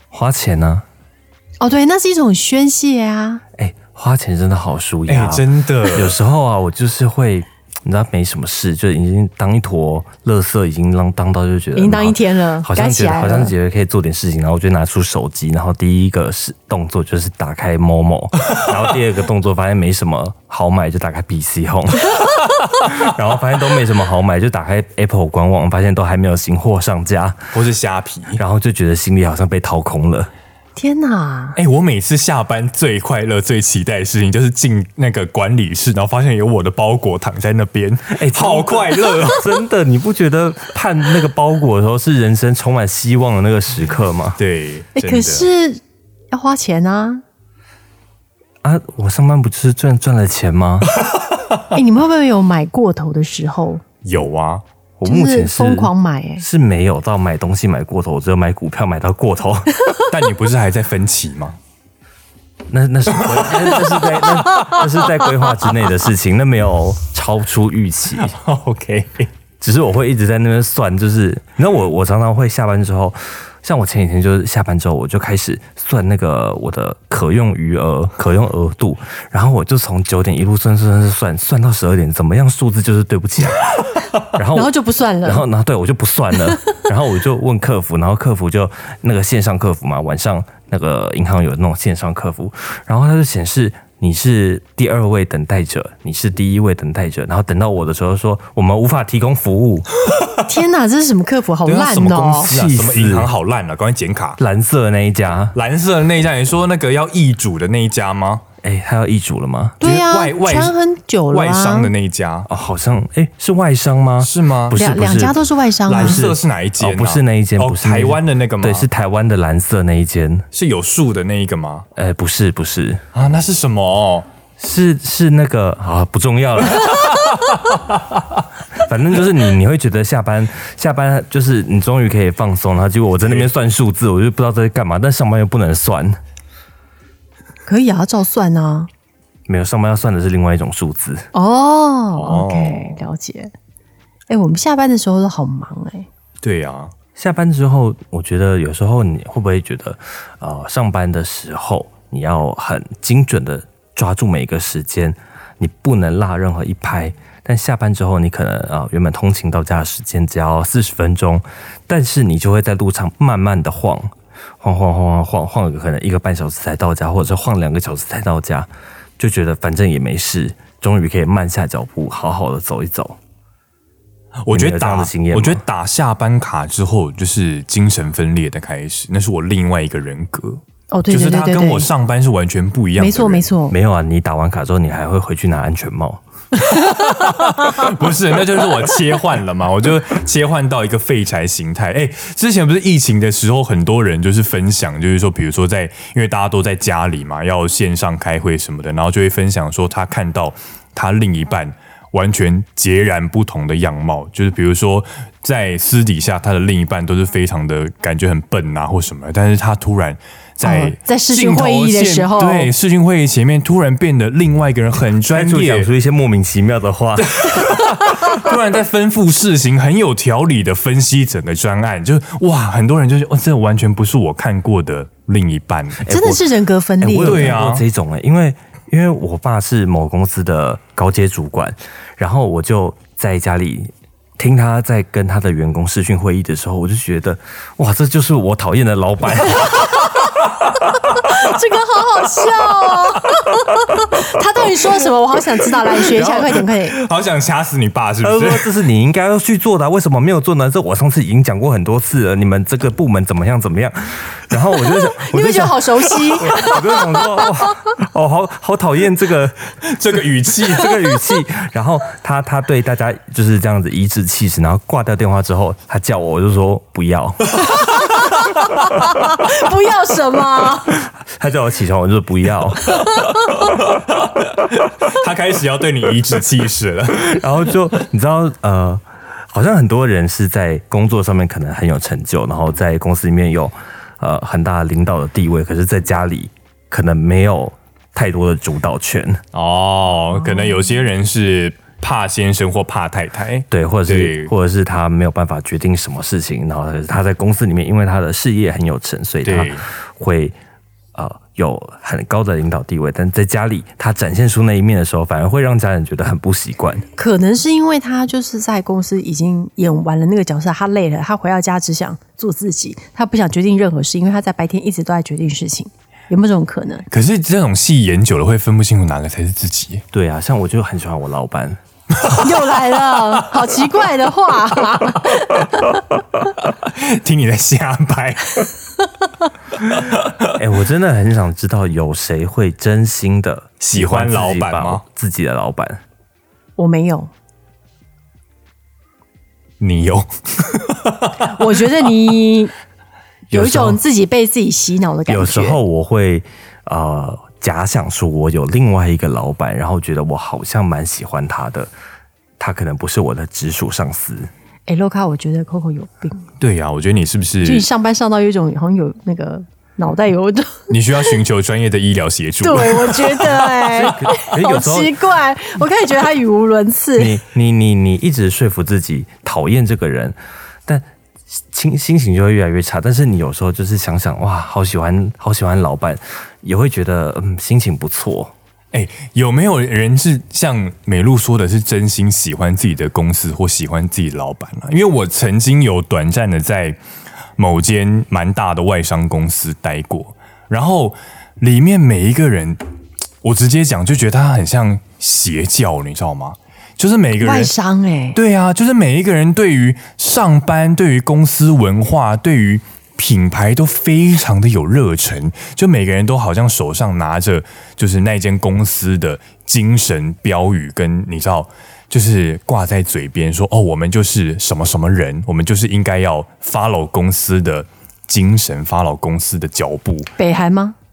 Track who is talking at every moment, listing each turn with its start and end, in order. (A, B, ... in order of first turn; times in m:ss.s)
0:00.1-0:00.9 A
0:01.6-0:03.4 B
0:03.6-0:27.5 A
0:05.1-0:06.2 C
0:11.8-0:13.5 B
0:27.5-0:28.4 C
0:28.4-0:30.3 A
0:30.8-0:31.6 B
0:31.6-0:39.5 C
0:38.1-0:44.4 A
0:44.4-0:45.5 C
0:45.0-0:45.8 B
0:46.3-0:47.2 B
0:48.6-0:50.9 A
0:51.7-0:53.8 B
0:54.0-0:54.6 C
0:55.0-0:59.8 A
0:55.0-0:56.4 B
1:00.1-1:01.6 C
1:02.7-1:08.4 A
1:03.2-1:04.8 C
1:08.2-1:09.3 C
1:09.6-1:23.7 A
1:24.2-1:39.9 A
1:24.5-1:25.5 B
1:40.4-1:42.5 B
1:41.7-1:44.4 C
1:42.4-1:43.3 A
1:44.4-1:45.6 A
1:45.6-1:48.4 C
1:48.6-1:49.8 A
1:49.8-1:51.9 B
1:49.8-1:50.8 C
1:51.3-1:52.5 C
1:52.5-2:00.5 A
1:54.2-1:54.8 C
1:54.7-1:56.2 B
1:55.9-1:58.9 C
2:00.5-2:01.9 C
2:02.0-2:03.0 A
2:03.1-2:04.3 C
2:04.6-2:07.3 A
2:08.7-2:16.2 A
2:17.7-2:18.9 B
2:19.5-2:21.3 A
2:21.3-2:23.5 B
2:22.2-2:23.0 C
2:24.3-2:26.1 B
2:26.4-2:26.9 C
2:27.2-2:53.2 A
2:54.4-3:03.5 C
2:54.5-2:55.6 A
3:00.9-3:01.9 B
3:03.0-3:03.8 B
3:03.7-3:06.2 A
3:06.6-3:35.9 C
3:30.6-3:32.7 B
3:35.3-3:37.7 A
3:37.2-3:46.2 C
3:46.1-3:47.6 B
3:46.1-3:46.4 A
3:47.0-4:00.0 A
3:47.2-3:47.8 C
4:01.0-4:07.0 B
4:06.0-4:08.7 C
4:08.2-4:19.6 A
4:15.1-4:17.4 B
4:19.8-4:21.1 C
4:20.6-4:27.6 A
4:27.6-4:28.2 C
4:28.1-4:31.0 B
4:31.2-4:33.1 A
4:33.1-4:33.4 B
4:33.7-4:37.4 C
4:37.2-4:49.4 A
4:49.5-4:54.5 C
4:53.7-5:00.6 A
4:59.4-4:59.8 C
5:01.1-5:07.1 A
5:07.2-5:17.1 B
5:17.1-5:20.0 C
5:20.1-5:21.8 A
5:22.1-5:23.2 C
5:22.3-5:26.0 B
5:26.6-5:28.7 C
5:29.8-5:30.5 C
5:30.5-5:36.0 A
5:33.8-5:35.0 C
5:36.8-5:37.3 B
5:39.8-5:41.8 C
5:41.4-5:42.7 B
5:43.5-5:45.8 B
5:43.5-5:44.0 C
5:45.3-5:51.9 A
5:52.6-5:54.5 A
5:54.9-5:56.5 B
5:56.6-5:57.9 C
5:57.6-6:01.4 B
6:00.9-6:03.8 C
6:02.6-6:07.4 B
6:03.9-6:05.2 A
6:07.2-6:11.0 A
6:11.6-6:18.5 A
6:18.9-6:27.0 C
6:27.6-6:32.8 C
6:33.4-6:37.7 C
6:37.4-6:38.4 B
6:38.4-7:00.3 C
7:00.4-7:01.0 B